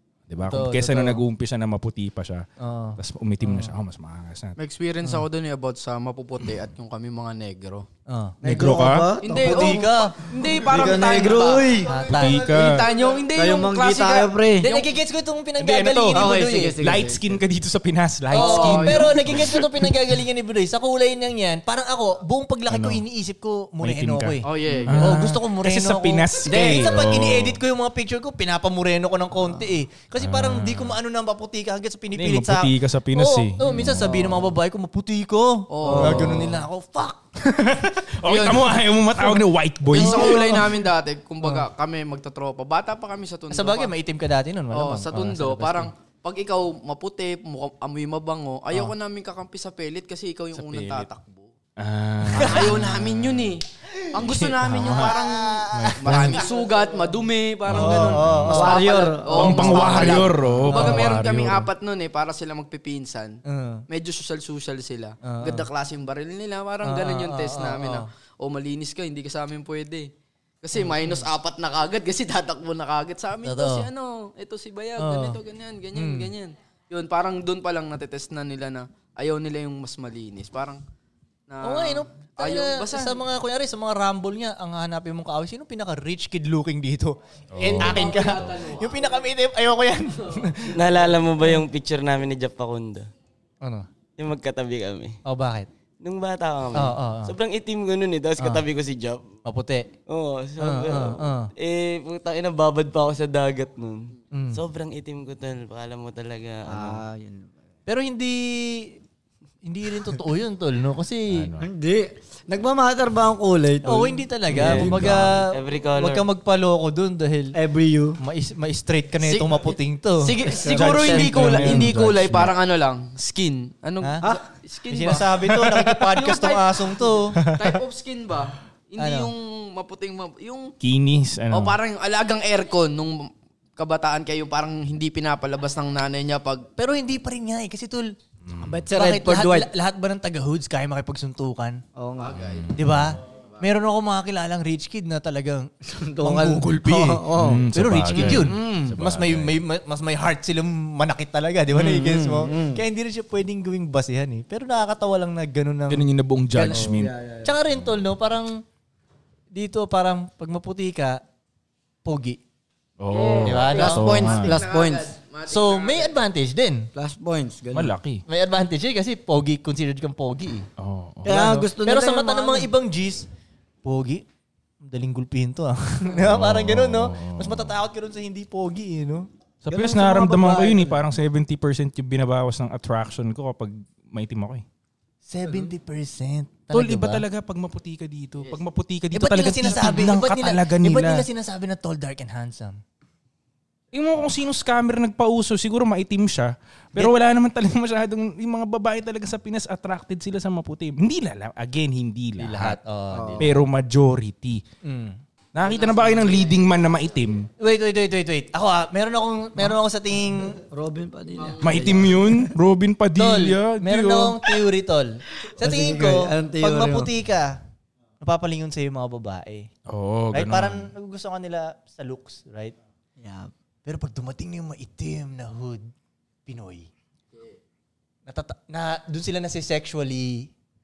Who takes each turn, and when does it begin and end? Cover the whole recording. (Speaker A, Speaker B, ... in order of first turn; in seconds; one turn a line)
Speaker A: 0.3-2.5
Speaker B: 0.4-1.2
Speaker B: 2.6-3.7
Speaker A: 3.0-4.6
Speaker C: 4.6-7.9
Speaker B: 8.1-8.4
Speaker D: 8.4-12.1
Speaker A: 8.4-9.2
Speaker C: 9.2-14.9
Speaker B: 9.3-10.2
Speaker B: 11.8-12.4
Speaker A: 12.1-12.9
Speaker D: 13.3-14.7
Speaker B: 14.6-16.8
Speaker A: 15.6-20.1
Speaker D: 16.1-17.4
Speaker C: 18.3-19.4
Speaker B: 18.3-37.2
Speaker A: 22.7-23.0
Speaker A: 23.8-27.6
Speaker C: 24.4-25.2
Speaker C: 26.5-27.0
Speaker A: 30.2-31.0
Speaker A: 32.1-34.4
Speaker D: 33.8-34.3
Speaker C: 35.7-36.5
Speaker D: 35.8-36.5
Speaker A: 37.4-40.7
Speaker C: 38.3-38.8
Speaker B: 38.3-38.5
Speaker C: 39.9-43.9
Speaker B: 39.9-40.6
Speaker B: 43.5-45.9
Speaker C: 44.7-51.5
Speaker A: 50.5-51.1
Speaker A: 51.8-53.1
Speaker C: 52.3-70.1
Speaker B: 52.4-53.3
Speaker A: 54.2-55.0
Speaker B: 54.8-55.1
Speaker A: 55.7-56.5
Speaker A: 57.7-58.7
Speaker B: 57.7-58.7
Speaker D: 58.4-60.6
Speaker A: 59.4-61.7
Speaker B: 59.4-59.7
Speaker B: 60.7-61.1
Speaker B: 63.5-63.8
Speaker B: 65.2-65.7
Speaker B: 66.8-68.1
Speaker C: 70.6-80.8
Speaker B: 70.8-71.3
Speaker B: 73.4-73.9
Speaker B: 75.0-75.4
Speaker B: 75.9-76.3
Speaker C: 81.5-83.2
Speaker B: 81.6-90.8
Speaker A: 87.5-88.7
Speaker C: 87.8-89.2
Speaker E: 90.7-93.1
Speaker E: 94.2-95.2
Speaker B: 95.2-95.7
Speaker E: 96.0-99.2
Speaker B: 96.8-97.3
Speaker B: 99.5-99.9
Speaker E: 100.1-107.0
Speaker B: 100.6-101.5
Speaker B: 104.3-104.6
Speaker D: 106.7-107.5
Speaker B: 107.9-109.0
Speaker B: 109.7-111.5
Speaker A: 111.3-111.7
Speaker D: 111.6-114.9
Speaker B: 113.8-117.6
Speaker A: 114.5-115.4
Speaker E: 115.5-116.2
Speaker D: 117.5-118.2
Speaker B: 118.2-122.5
Speaker C: 119.2-130.7
Speaker D: 120.6-121.4
Speaker A: 120.7-122.5
Speaker B: 124.9-127.4
Speaker B: 129.0-129.3
Speaker A: 130.8-131.8
Speaker C: 131.5-136.7
Speaker B: 136.8-138.1
Speaker A: 138.4-138.9
Speaker D: 138.6-139.7
Speaker B: 138.9-141.8
Speaker D: 142.0-142.5
Speaker C: 142.2-142.7
Speaker A: 142.4-143.1
Speaker B: 142.8-145.7
Speaker D: 145.8-149.0
Speaker B: 146.2-158.6
Speaker A: 147.3-149.6
Speaker D: 151.7-152.8
Speaker A: 155.9-157.1
Speaker D: 156.6-157.5
Speaker A: 157.7-158.0
Speaker B: 159.6-161.2
Speaker B: 162.1-162.4
Speaker A: 163.0-164.6
Speaker C: 163.1-166.2
Speaker B: 163.4-164.4
Speaker D: 163.8-165.1
Speaker B: 165.5-166.9
Speaker D: 166.9-167.9
Speaker A: 167.7-168.2
Speaker B: 168.3-170.7
Speaker A: 170.8-171.6
Speaker D: 171.2-172.7
Speaker B: 171.3-173.3
Speaker B: 173.8-174.2
Speaker B: 174.8-179.3
Speaker A: 176.2-177.8
Speaker A: 179.7-184.7
Speaker D: 179.7-181.0
Speaker B: 185.3-187.2
Speaker A: 186.7-191.3
Speaker C: 188.4-188.7
Speaker B: 189.1-192.8
Speaker A: 193.9-202.8
Speaker B: 202.4-203.6
Speaker D: 203.1-203.5
Speaker A: 203.4-204.6
Speaker B: 204.8-205.2
Speaker A: 205.6-207.5
Speaker C: 205.6-206.6
Speaker B: 207.6-210.6
Speaker D: 210.7-212.4
Speaker C: 211.4-212.1
Speaker A: 211.6-214.5
Speaker B: 213.2-217.6
Speaker D: 215.6-217.1
Speaker B: 218.2-219.7
Speaker A: 219.9-220.9
Speaker B: 220.3-222.8
Speaker D: 223.2-223.5
Speaker B: 223.8-225.9
Speaker B: 226.5-226.9
Speaker B: 228.3-230.5